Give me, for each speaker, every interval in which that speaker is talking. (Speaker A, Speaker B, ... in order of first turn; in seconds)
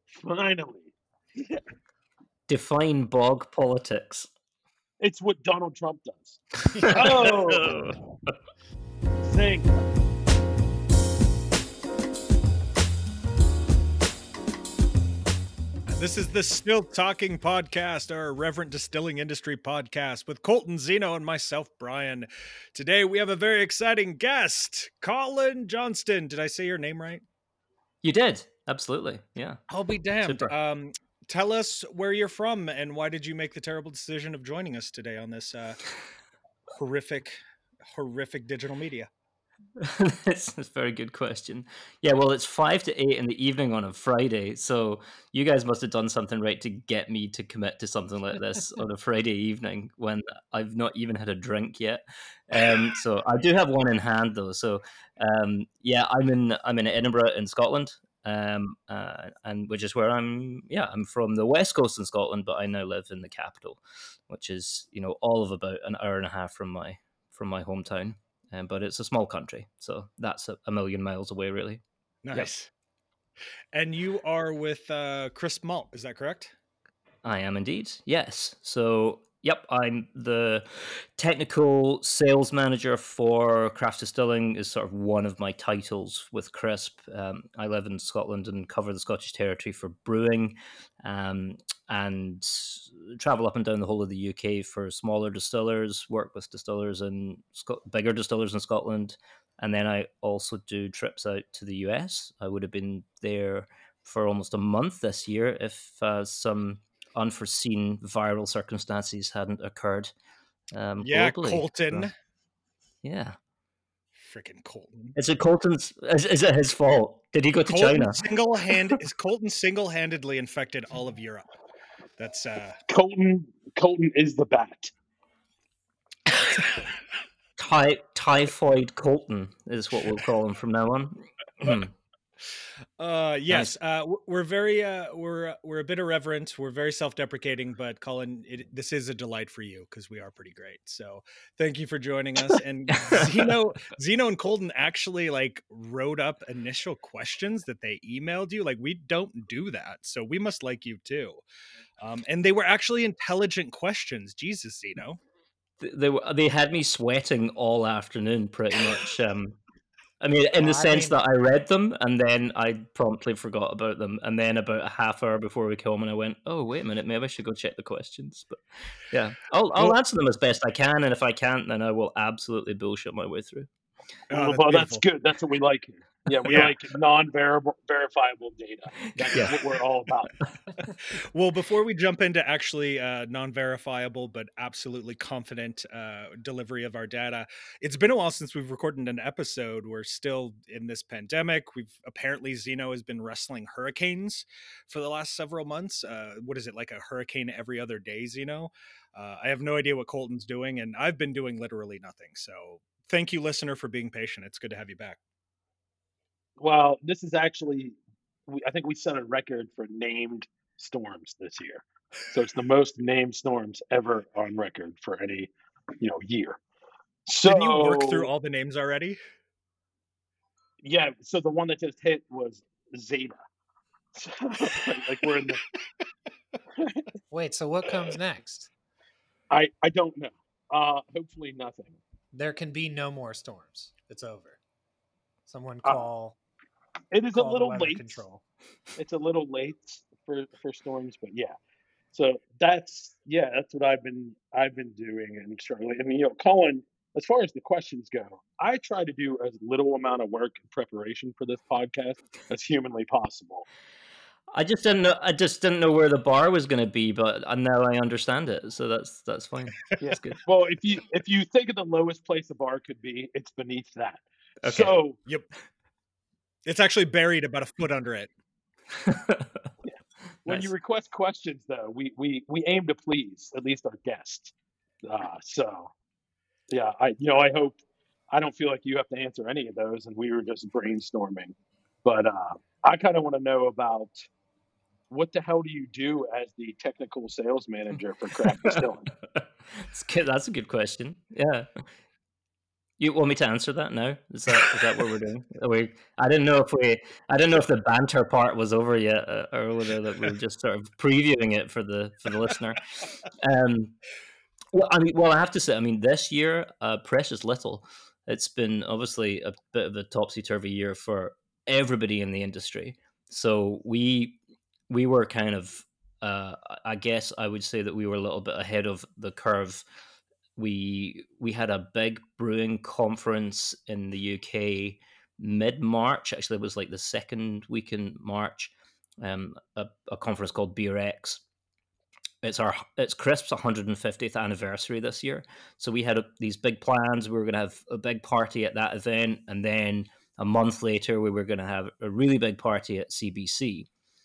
Speaker A: 0.1-1.6, 5.0-7.8, 9.2-9.7, 122.9-124.9, 174.3-180.3, 206.6-216.6, 217.3-218.3, 220.8-223.4, 224.1-225.6, 226.7-227.1, 229.5-232.0, 237.1-238.2, 238.9-241.5, 242.1-253.7, 260.0-265.2, 269.8-275.9, 276.7-281.5, 282.0-284.1, 285.1-289.1
Speaker B: 2.5-4.3, 6.8-8.3, 28.0-29.6, 30.2-30.5, 39.8-71.8, 77.2-110.1, 110.7-112.1, 113.0-113.4, 115.2-118.2, 127.6-131.9, 133.5-133.8, 143.0-143.5, 155.8-159.6, 160.2-173.7, 179.2-179.6, 254.5-260.4, 264.6-264.9, 269.0-269.6, 289.3-291.8, 293.0-303.9, 304.7-319.9, 320.6-331.4, 332.4-343.9
Speaker C: 15.9-27.2, 29.7-35.8, 36.7-37.4, 37.9-39.1, 72.2-72.7, 73.7-76.5, 111.0-112.1, 114.2-115.1, 117.7-121.5, 122.2-122.8, 126.4-126.7, 133.0-151.4, 152.0-155.2, 174.3-175.0, 176.4-176.8, 180.8-205.2, 217.4-219.2, 266.6-268.3
Speaker D: 160.6-161.2, 227.3-228.7, 232.3-234.6, 235.5-236.4, 237.3-238.4